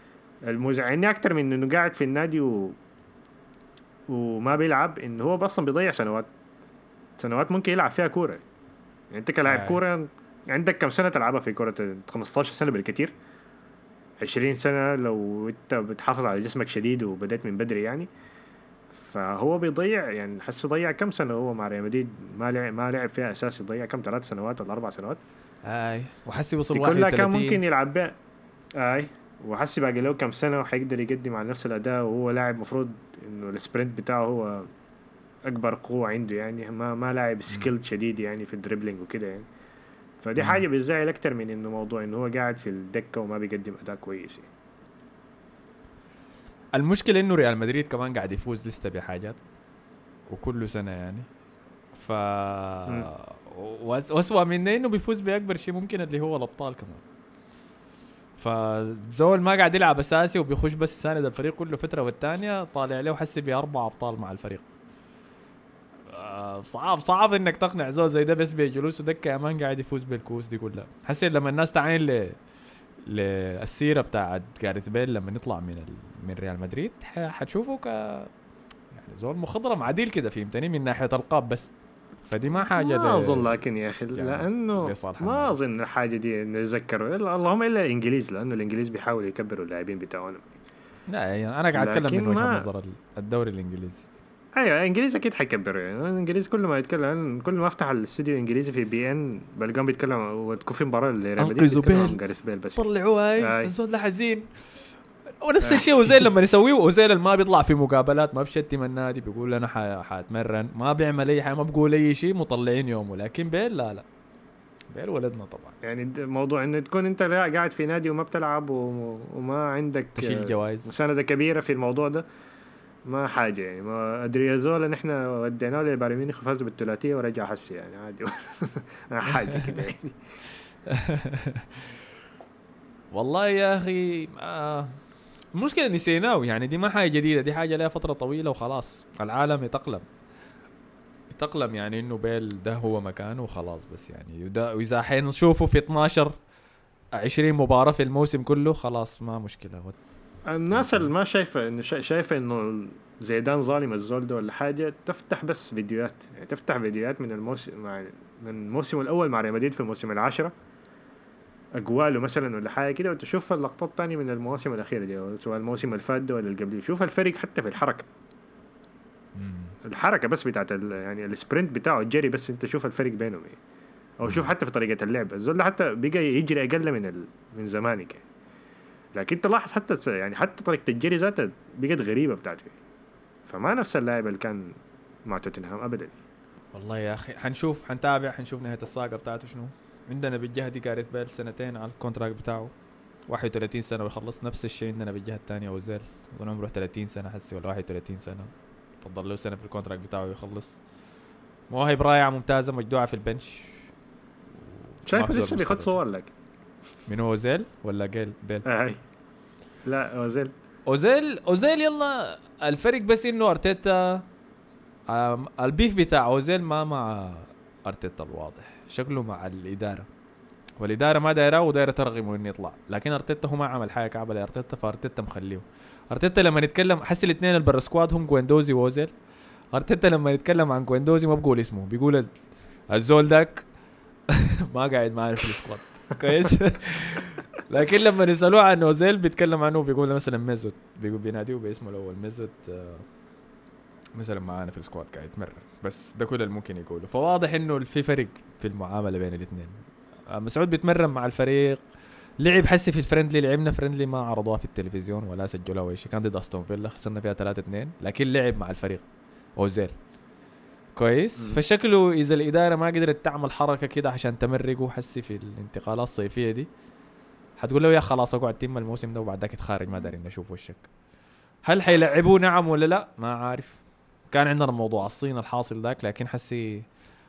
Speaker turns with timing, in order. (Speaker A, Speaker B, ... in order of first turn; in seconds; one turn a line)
Speaker A: 0.5-2.8
Speaker A: 4.1-6.3
Speaker A: 7.2-8.4
Speaker A: 9.1-13.1
Speaker B: 9.5-9.8
Speaker A: 14.2-18.1
Speaker A: 18.9-25.2
Speaker B: 25.6-27.6
Speaker A: 26.7-28.1
Speaker A: 28.8-34.7
Speaker A: 35.5-39.5
Speaker A: 40.2-44.5
Speaker B: 40.4-40.6
Speaker B: 46.7-49.4
Speaker B: 50.3-51.3
Speaker B: 51.9-57.0
Speaker B: 58.4-64.7
Speaker B: 66.1-72.4
Speaker B: 73.1-78.3
Speaker B: 78.9-81.7
Speaker B: 82.3-83.5
Speaker A: 82.8-90.5
Speaker B: 84.1-85.6
Speaker B: 91.1-94.1
Speaker A: 91.7-92.7
Speaker A: 94.6-102.9
Speaker B: 101.4-102.2
Speaker B: 102.8-104.5
Speaker A: 103.4-103.7
Speaker B: 105.4-114.0
Speaker A: 105.6-106.3
Speaker B: 114.9-115.8
Speaker A: 115.8-122.2
Speaker B: 120.2-121.0
Speaker A: 123.1-130.2
Speaker B: 129.4-129.8
Speaker B: 130.9-131.8
Speaker B: 133.1-135.0
Speaker B: 135.6-140.1
Speaker B: 141.3-146.3
Speaker B: 147.2-150.0
Speaker A: 150.5-160.5
Speaker B: 150.7-151.1
Speaker A: 161.8-168.1
Speaker B: 169.4-169.8
Speaker A: 169.8-173.6
Speaker A: 174.2-178.2
Speaker B: 174.2-174.5
Speaker A: 179.2-182.8
Speaker A: 183.5-184.7
Speaker A: 185.3-186.2
Speaker B: 186.7-192.7
Speaker B: 193.3-200.8
Speaker B: 201.7-203.8
Speaker B: 204.9-206.0
Speaker A: 205.1-206.3
Speaker B: 207.1-208.7
Speaker A: 208.7-209.0
Speaker A: 209.9-210.5
Speaker B: 210.9-214.2
Speaker B: 215.1-220.1
Speaker B: 220.8-229.1
Speaker B: 229.7-232.3
Speaker B: 232.9-233.7
Speaker B: 234.3-243.1
Speaker B: 244.2-249.8
Speaker B: 250.3-251.8
Speaker B: 252.4-259.1
Speaker B: 259.6-259.9
Speaker B: 261.0-266.7
Speaker B: 267.6-270.9
Speaker B: 271.6-273.8
Speaker B: 274.3-276.9